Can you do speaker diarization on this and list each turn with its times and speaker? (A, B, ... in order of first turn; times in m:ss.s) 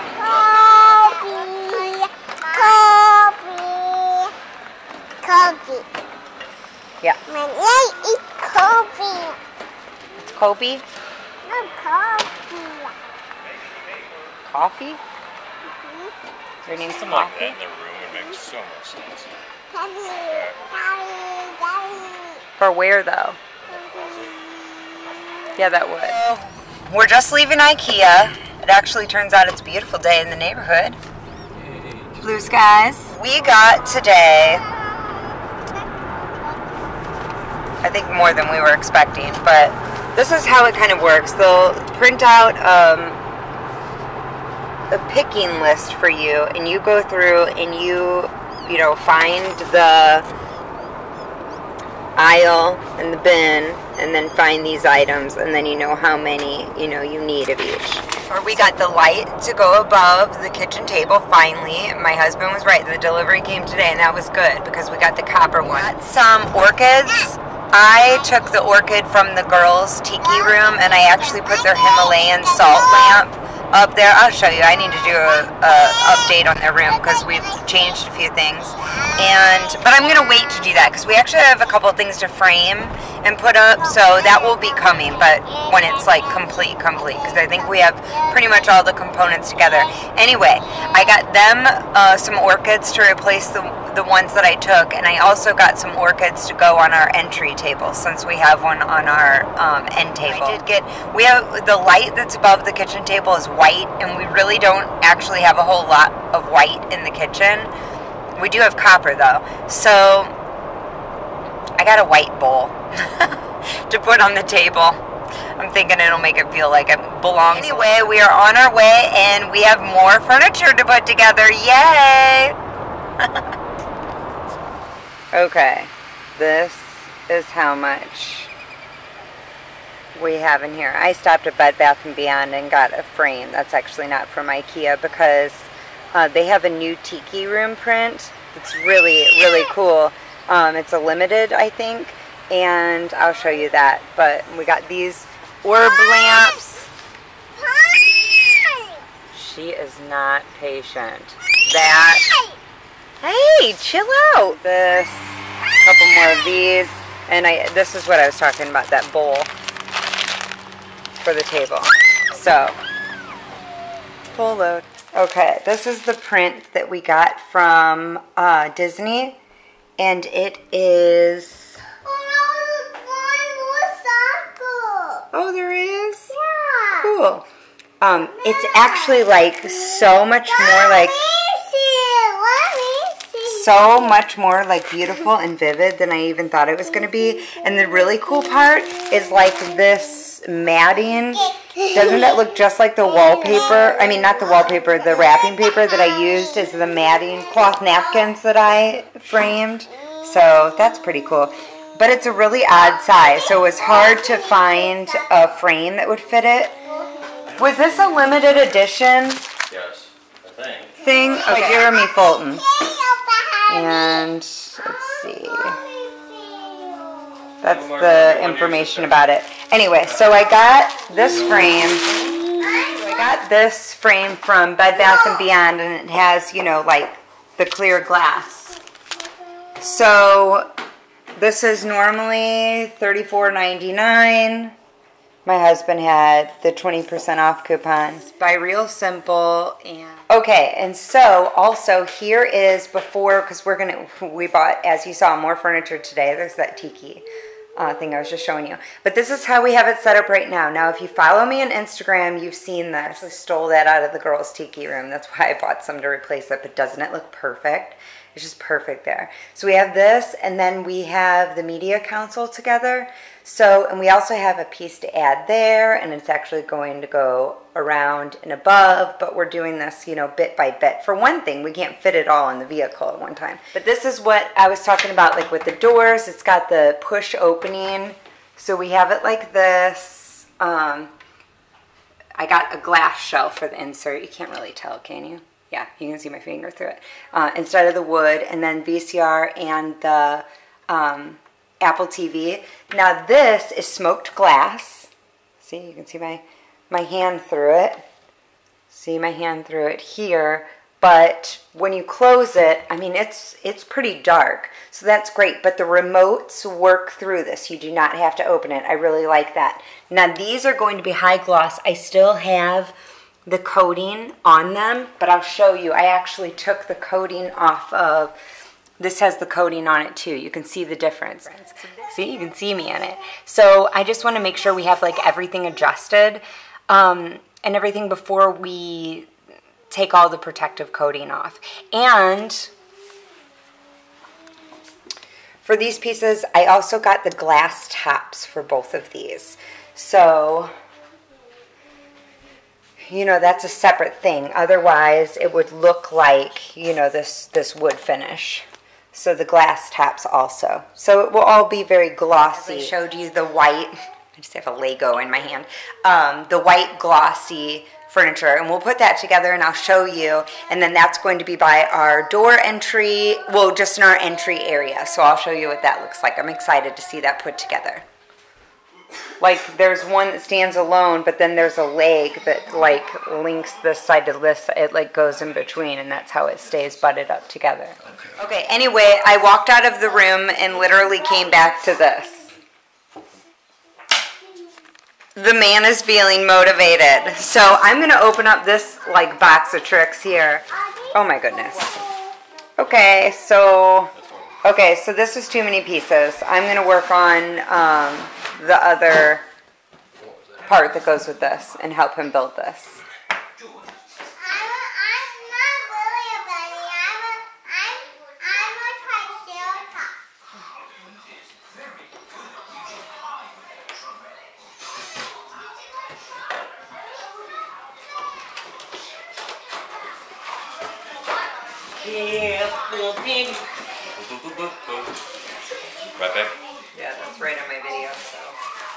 0:00.2-0:04.3 A
0:05.2-0:05.9 A
0:07.3-0:09.4 A
0:10.3-0:10.8 B
0:11.4-0:12.9 A
0:14.4-0:15.0 B
0:15.8-0:16.1 A
0:16.6-0:17.6 B
0:16.9-0:19.3 C
0:19.7-0:22.4 A
0:20.3-0:20.6 C
0:22.6-0:23.4 B
0:23.6-0:24.3 C
0:25.6-0:31.0 B
0:31.6-0:32.2 C
0:32.2-0:34.7 B
0:37.8-0:43.2 B
0:44.9-0:50.3 B
0:52.2-1:47.7 B
1:48.3-1:50.3 B
1:51.8-1:55.0 B
1:55.6-2:02.6 B
2:05.3-2:08.5 B
2:10.1-2:26.9 B
2:29.3-2:32.3 B
2:33.2-2:39.5 B
2:41.2-2:42.8 B
2:44.3-2:49.4 B
2:50.0-2:51.8 B
2:52.0-2:55.2 A
2:55.3-2:56.4 B
2:56.4-2:56.9 A
2:56.9-2:57.5 B
2:58.0-3:01.3 B
3:01.3-3:03.4 A
3:03.4-3:26.8 B
3:27.5-3:29.4 B
3:29.7-3:30.9 C
3:31.0-3:32.8 B
3:31.5-3:31.9 A
3:32.8-3:33.6 A
3:33.7-3:35.8 B
3:36.1-3:37.4 A
3:37.6-3:48.8 B
3:37.6-3:39.1 C
3:49.8-3:50.7 B
3:51.4-3:54.7 B
3:55.4-4:07.2 B
3:59.8-4:00.2 A
4:07.8-4:41.1 B
4:42.3-4:58.0 B
4:58.9-5:12.9 B
5:13.4-5:18.4 B
5:19.0-5:29.3 B
5:29.9-5:32.7 B
5:35.6-5:40.7 B
5:43.0-6:08.0 B
6:09.4-6:22.5 B
6:25.4-6:32.0 B
6:32.8-6:34.1 B
6:34.2-6:34.6 C
6:34.6-6:39.4 B
6:40.2-6:40.5 C
6:40.6-6:43.0 B
6:44.4-6:50.1 A
7:02.0-7:03.6 C
7:04.2-7:05.1 C
7:06.2-7:06.5 C
7:06.9-7:08.5 B